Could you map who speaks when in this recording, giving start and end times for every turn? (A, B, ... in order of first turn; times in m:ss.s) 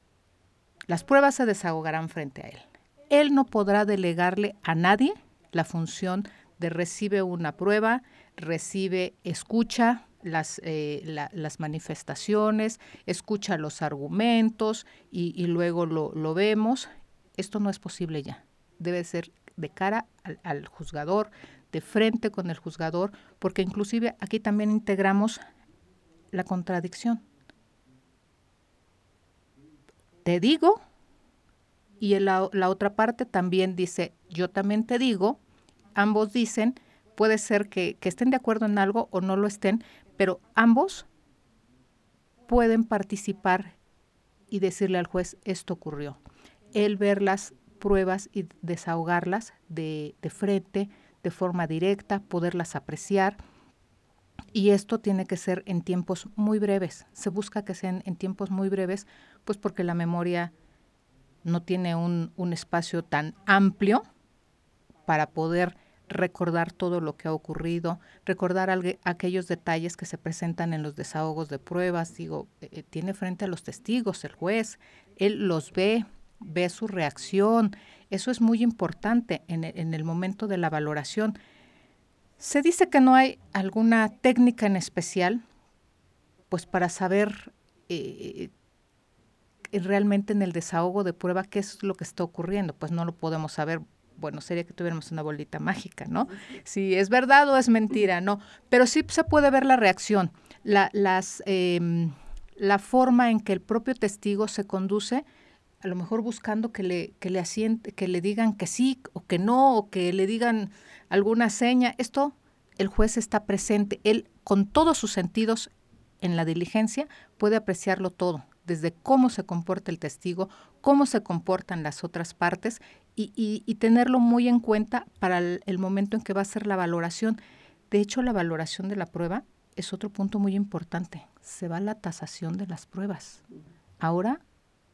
0:00.9-0:25.4 A
0:26.3-0:27.2 A
0:30.2-0:30.8 A
0:32.0-0:35.4 A
0:36.0-0:41.1 A
0:42.5-0:43.8 A
0:44.5-0:46.2 A
0:46.7-0:53.4 A
0:54.5-1:00.5 A
1:01.4-1:04.0 A
1:05.1-1:21.4 A
1:22.4-1:25.4 A
1:26.5-1:28.5 A
1:29.7-1:45.2 A
1:45.8-1:55.7 A
1:56.2-2:07.4 A
2:07.9-2:13.4 A
2:14.0-2:14.4 A